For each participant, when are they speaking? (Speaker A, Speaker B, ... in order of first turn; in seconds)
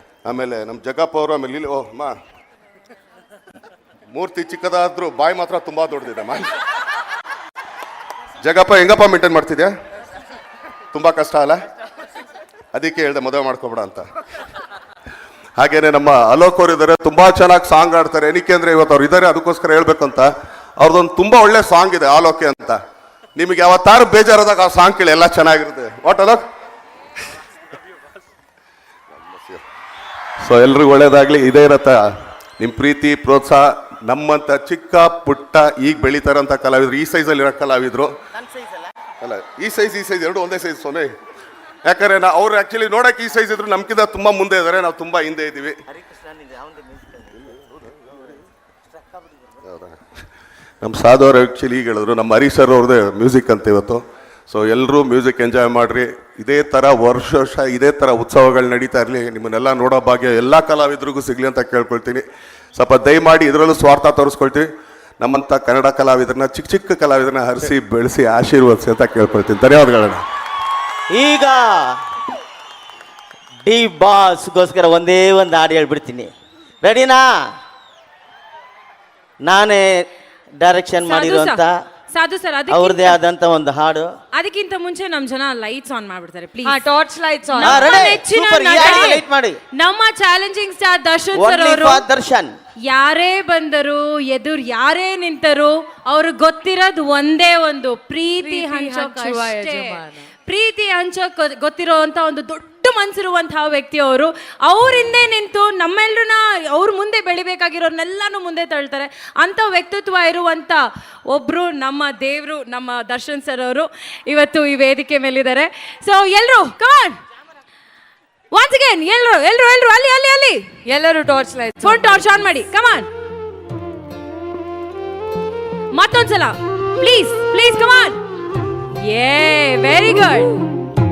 Speaker A: 0.2-2.1, 4.1-6.5, 8.4-9.7, 10.9-11.6, 12.7-14.0, 15.6-22.8, 23.4-26.4, 29.1-29.6, 30.4-38.1, 39.2-41.1, 41.8-45.8, 49.6-50.0, 50.8-64.7, 65.2-70.2
Speaker B: 38.3-38.9, 46.0-47.2, 71.1-72.0, 73.6-76.3, 76.8-77.4, 79.4-80.1, 80.6-81.8, 82.7-84.1, 87.6-89.6, 91.3-92.6
Speaker C: 81.0-83.2, 84.3-86.8, 87.5-89.2, 89.8-92.0, 92.8-117.2, 118.5-120.7, 121.8-123.1, 125.9-128.2, 129.0-130.6
Speaker D: 86.7-88.0, 88.8-89.1, 98.4-100.3, 120.9-122.2